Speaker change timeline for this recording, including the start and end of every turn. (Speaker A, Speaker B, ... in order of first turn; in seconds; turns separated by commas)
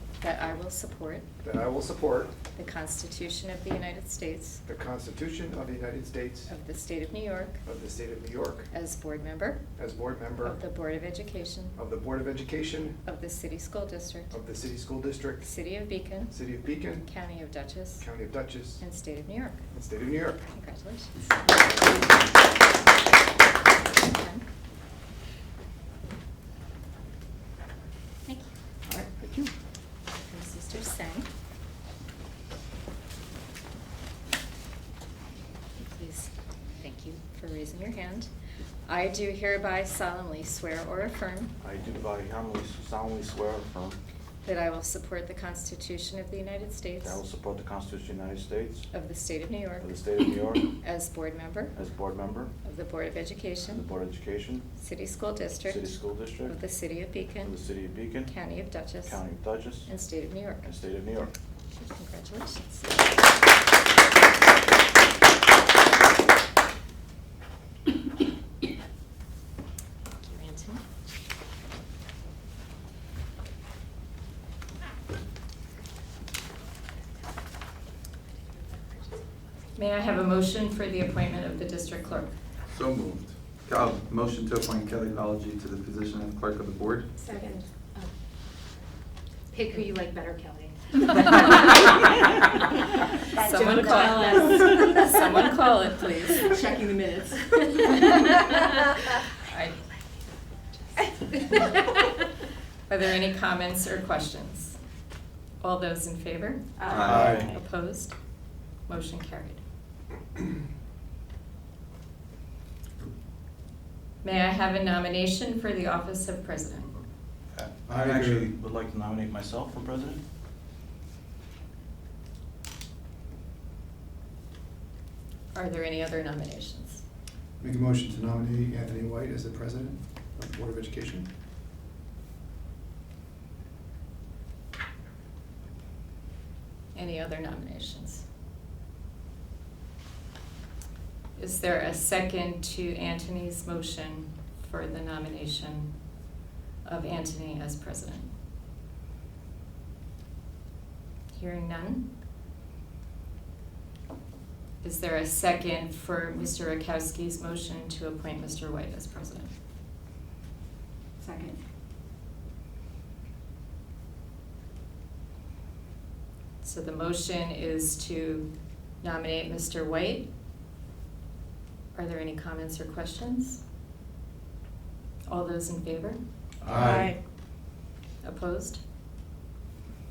Speaker A: 0.2-1.3, Speaker B: 1.4-2.4, Speaker A: 2.5-4.6, Speaker B: 4.7-6.5, Speaker A: 6.5-7.6, Speaker B: 7.6-8.7, Speaker A: 8.7-9.6, Speaker B: 9.8-10.6, Speaker A: 10.4-11.8, Speaker B: 11.8-13.0, Speaker A: 13.1-14.4, Speaker B: 14.3-15.5, Speaker A: 15.4-16.3, Speaker B: 16.3-17.1, Speaker A: 17.0-18.1, Speaker B: 18.0-18.8, Speaker A: 18.8-19.6, Speaker B: 19.7-20.4, Speaker A: 20.4-21.4, Speaker B: 21.5-22.1, Speaker A: 24.0-24.4, Speaker B: 28.9-29.5, Speaker A: 30.3-31.3, Speaker A: 35.8-38.3, Speaker A: 38.9-41.6, Speaker C: 41.6-44.0, Speaker A: 44.4-47.2, Speaker C: 47.0-48.9, Speaker A: 48.9-51.8, Speaker C: 49.8-50.7, Speaker C: 51.7-52.5, Speaker A: 52.6-53.9, Speaker C: 53.6-54.7, Speaker A: 54.8-57.6, Speaker C: 55.7-56.6, Speaker C: 57.4-58.3, Speaker A: 58.2-59.3, Speaker C: 59.0-59.9, Speaker A: 59.8-60.7, Speaker C: 60.6-61.3, Speaker A: 61.8-63.0, Speaker A: 70.2-70.8, Speaker A: 79.8-82.3, Speaker D: 82.7-87.1, Speaker E: 87.2-87.6, Speaker E: 89.5-90.8, Speaker A: 91.2-91.7, Speaker A: 93.3-96.5, Speaker E: 93.4-94.9, Speaker E: 96.5-97.4, Speaker A: 99.4-99.8, Speaker A: 101.3-101.8, Speaker A: 102.9-104.8, Speaker A: 105.6-108.2, Speaker E: 106.8-107.1, Speaker D: 106.9-107.5, Speaker C: 107.0-107.5, Speaker B: 107.0-107.5, Speaker A: 108.9-109.6, Speaker A: 114.2-117.0, Speaker C: 117.5-120.2, Speaker B: 117.9-118.5, Speaker A: 125.5-127.0, Speaker B: 127.6-131.3, Speaker A: 136.9-138.3, Speaker A: 141.4-145.9, Speaker A: 146.8-148.3, Speaker A: 151.3-152.1, Speaker A: 154.8-159.5, Speaker A: 166.6-168.5, Speaker A: 169.0-170.3, Speaker A: 171.9-173.6, Speaker A: 175.3-176.2, Speaker B: 176.6-177.1, Speaker A: 178.2-178.8